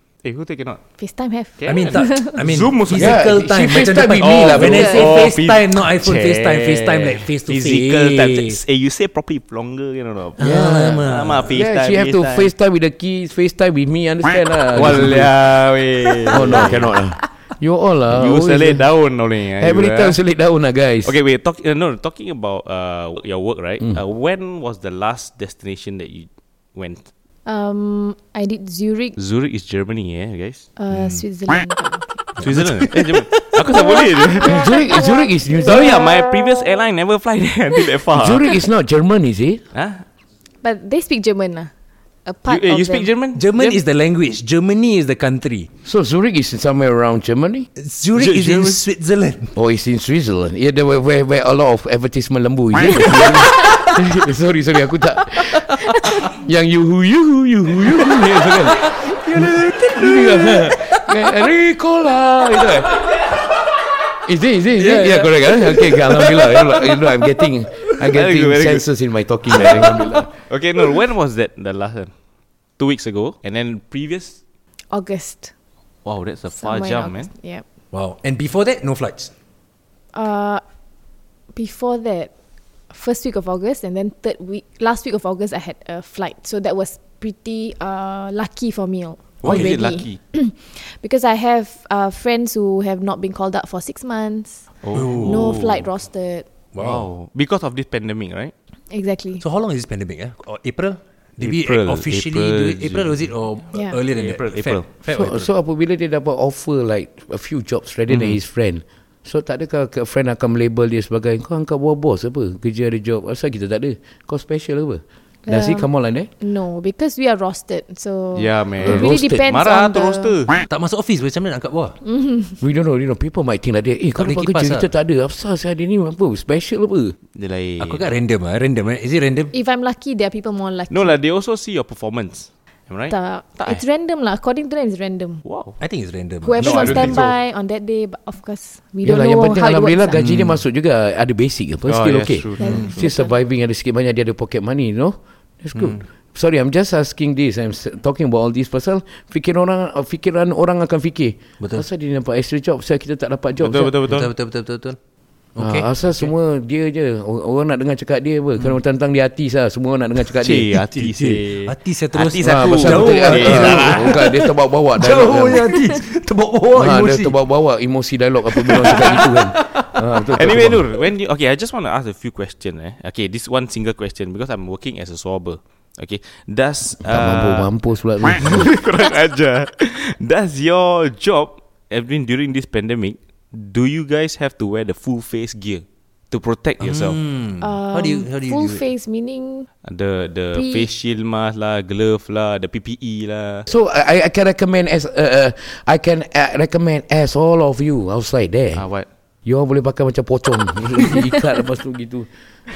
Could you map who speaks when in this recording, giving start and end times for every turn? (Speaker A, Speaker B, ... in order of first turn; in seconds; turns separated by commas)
Speaker A: 0.2-0.8, Speaker B: 1.0-2.4, Speaker A: 1.6-3.3, Speaker C: 1.7-8.6, Speaker D: 2.9-5.1, Speaker A: 3.8-12.5, Speaker B: 4.7-5.0, Speaker C: 10.4-11.5, Speaker D: 10.4-15.3, Speaker A: 14.8-16.9, Speaker D: 16.3-18.9, Speaker A: 18.1-20.2, Speaker D: 19.6-21.2, Speaker A: 21.0-27.1, Speaker B: 27.5-29.2, Speaker A: 29.2-30.7, Speaker B: 30.8-32.3, Speaker C: 32.4-33.9, Speaker A: 32.4-34.7, Speaker B: 34.4-35.2, Speaker D: 34.4-36.1, Speaker A: 35.6-38.5, Speaker D: 38.1-39.6, Speaker A: 39.7-40.0, Speaker B: 40.6-41.7, Speaker B: 42.2-43.1, Speaker A: 42.5-43.8, Speaker C: 43.3-45.7, Speaker D: 45.9-47.7, Speaker C: 47.8-49.5, Speaker A: 48.2-48.8, Speaker D: 49.5-63.2, Speaker C: 52.9-53.9, Speaker C: 58.1-61.3, Speaker D: 64.2-70.3, Speaker C: 64.8-67.2, Speaker A: 68.0-68.9, Speaker A: 69.5-72.1, Speaker C: 69.6-69.9, Speaker A: 72.8-74.4, Speaker B: 74.9-75.5, Speaker A: 76.0-77.3, Speaker B: 76.6-77.6, Speaker C: 77.9-79.3, Speaker B: 80.1-80.6, Speaker B: 81.5-82.3, Speaker B: 82.9-94.7, Speaker A: 89.4-90.2, Speaker C: 89.4-89.7, Speaker A: 94.8-95.8, Speaker C: 95.0-95.6, Speaker B: 95.2-96.5, Speaker C: 96.8-97.1, Speaker A: 96.8-98.5, Speaker B: 98.9-99.4, Speaker C: 99.4-105.5, Speaker A: 101.4-103.3, Speaker B: 103.7-104.0, Speaker A: 104.1-104.9, Speaker D: 105.1-116.3, Speaker A: 108.1-108.4, Speaker B: 115.5-120.3, Speaker A: 118.3-120.6, Speaker D: 118.8-119.5, Speaker C: 120.7-122.0, Speaker B: 122.0-122.6, Speaker D: 122.6-127.2, Speaker C: 124.2-124.9, Speaker A: 127.3-128.0, Speaker C: 127.8-129.5, Speaker B: 129.5-131.2, Speaker A: 130.9-133.8, Speaker B: 133.1-135.4, Speaker A: 135.4-135.8, Speaker C: 135.8-137.3, Speaker B: 136.4-140.2, Speaker A: 136.6-137.3, Speaker D: 139.0-153.9, Speaker C: 140.2-140.6, Speaker A: 141.9-143.0, Speaker B: 142.6-143.4, Speaker C: 142.6-142.9, Speaker C: 145.8-146.0, Speaker C: 151.6-151.8, Speaker A: 153.6-154.3, Speaker C: 154.1-155.0, Speaker C: 155.6-156.3, Speaker D: 155.6-160.7, Speaker A: 160.4-164.2, Speaker C: 160.9-167.4, Speaker D: 162.4-165.8, Speaker D: 166.7-170.8, Speaker C: 168.5-170.7, Speaker A: 170.4-177.7, Speaker D: 177.0-178.8, Speaker A: 178.3-187.2, Speaker C: 186.8-188.8, Speaker B: 187.6-189.7, Speaker A: 189.8-193.7, Speaker B: 190.5-190.9, Speaker D: 193.7-198.8, Speaker A: 198.8-199.1, Speaker D: 199.4-202.3